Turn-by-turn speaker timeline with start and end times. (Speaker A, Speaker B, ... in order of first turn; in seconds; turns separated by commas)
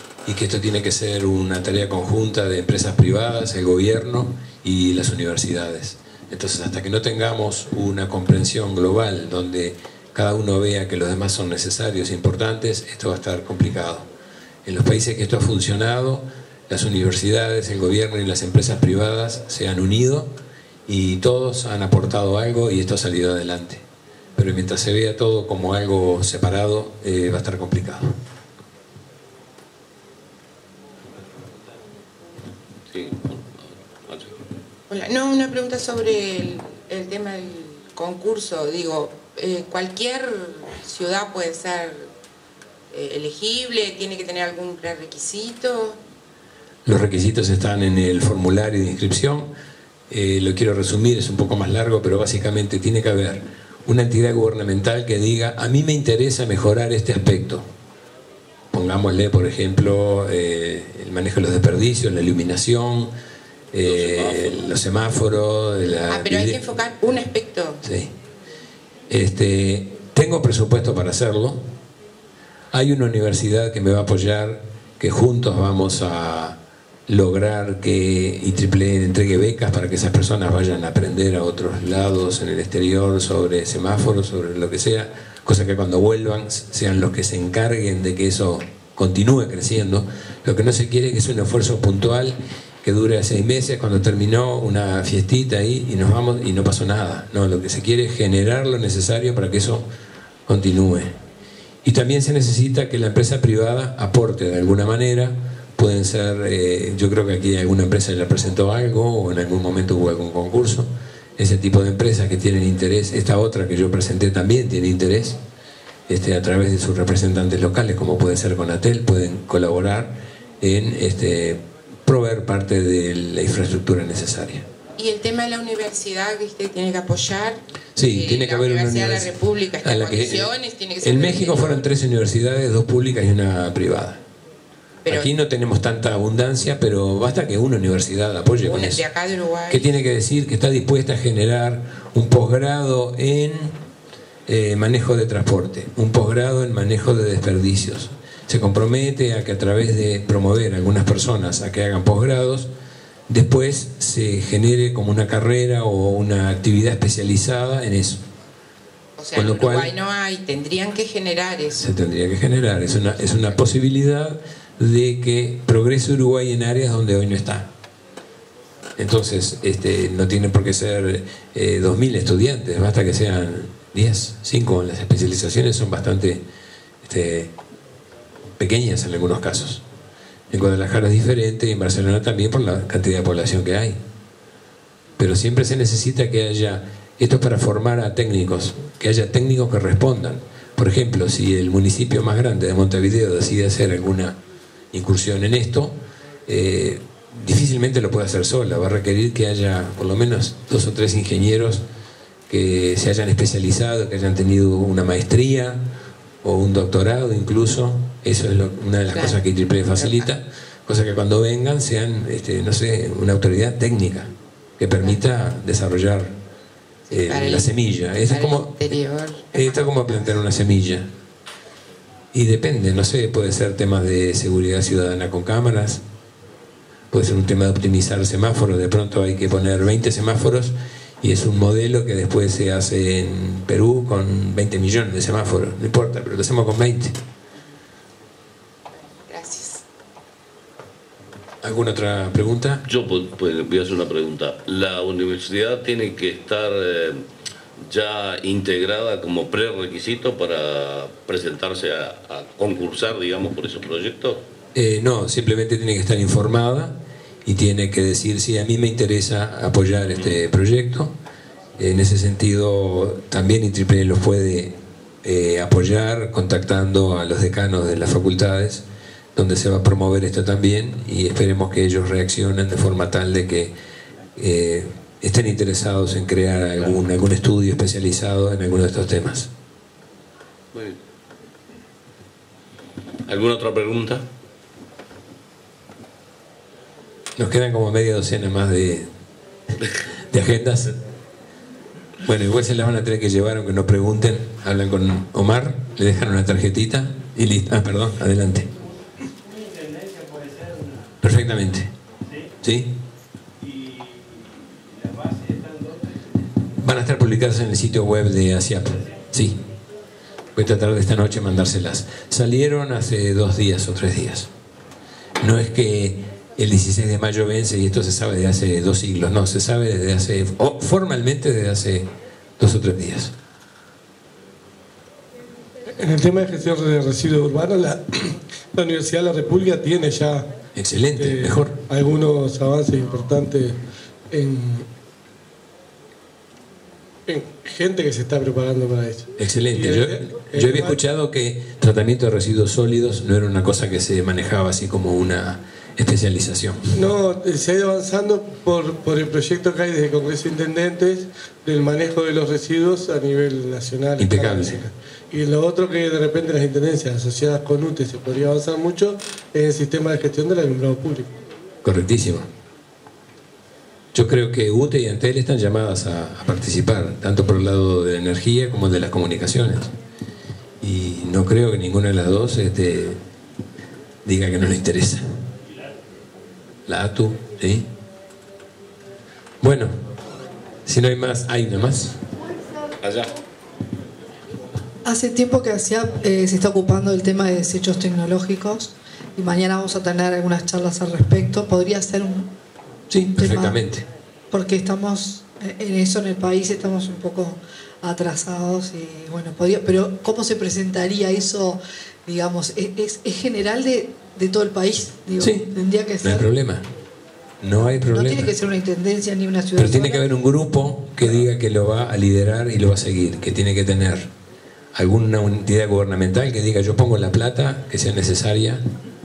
Speaker A: 0.3-14.1, Speaker A: 14.7-20.3, Speaker A: 20.9-23.8, Speaker A: 24.4-28.2, Speaker B: 32.9-34.4, Speaker C: 34.9-42.1, Speaker C: 42.9-46.0, Speaker A: 46.9-49.5, Speaker A: 50.1-57.7, Speaker A: 58.7-63.1, Speaker A: 63.7-66.9, Speaker B: 63.8-64.6, Speaker C: 66.1-67.8, Speaker A: 67.8-68.1, Speaker A: 69.1-71.7, Speaker A: 72.7-76.6, Speaker A: 77.1-99.9, Speaker A: 100.5-101.1, Speaker A: 101.8-115.4, Speaker A: 116.1-124.7, Speaker C: 125.0-131.9, Speaker A: 128.0-134.2, Speaker C: 135.1-135.3, Speaker A: 135.1-139.0, Speaker C: 138.6-139.9, Speaker A: 139.7-143.8, Speaker A: 144.5-152.7, Speaker A: 153.3-158.2, Speaker C: 159.2-161.8, Speaker A: 159.3-159.9, Speaker A: 161.7-167.7, Speaker A: 169.0-176.4, Speaker A: 177.0-177.5, Speaker A: 178.6-179.8, Speaker A: 180.5-184.0, Speaker A: 185.2-194.4, Speaker A: 194.9-201.8, Speaker A: 202.5-205.9, Speaker A: 206.4-216.3, Speaker C: 209.1-210.3, Speaker C: 217.1-220.5, Speaker A: 217.1-219.0, Speaker A: 219.5-221.1, Speaker A: 222.3-226.0, Speaker A: 227.1-237.2, Speaker C: 239.0-239.8, Speaker A: 241.6-242.9, Speaker B: 242.9-247.2, Speaker B: 247.8-254.4, Speaker A: 254.8-261.1, Speaker B: 260.1-260.4, Speaker A: 261.8-268.8, Speaker A: 269.4-273.7, Speaker A: 274.4-279.5, Speaker B: 280.7-281.0, Speaker B: 283.3-284.3, Speaker A: 287.4-289.1, Speaker A: 290.3-291.0, Speaker A: 292.2-298.7, Speaker A: 301.2-301.9, Speaker A: 302.6-303.0, Speaker A: 306.8-309.6, Speaker A: 310.6-314.5, Speaker A: 315.4-322.1, Speaker A: 322.6-323.3, Speaker D: 326.0-330.4, Speaker A: 330.8-331.8, Speaker D: 331.2-333.8, Speaker D: 334.3-334.9, Speaker D: 337.3-341.0, Speaker A: 339.4-347.0, Speaker D: 346.9-361.3, Speaker A: 354.2-354.8, Speaker A: 361.8-362.5, Speaker A: 364.1-369.9, Speaker A: 370.8-373.2, Speaker A: 374.2-375.2, Speaker A: 376.9-377.9, Speaker A: 379.6-379.9, Speaker A: 380.9-382.2, Speaker B: 383.0-383.3, Speaker E: 385.1-392.5, Speaker A: 393.1-394.1, Speaker E: 393.4-393.8, Speaker E: 394.5-406.5, Speaker A: 405.4-405.7, Speaker A: 406.2-406.9, Speaker A: 407.6-408.5, Speaker E: 407.9-410.3, Speaker A: 409.8-414.3, Speaker A: 414.9-418.8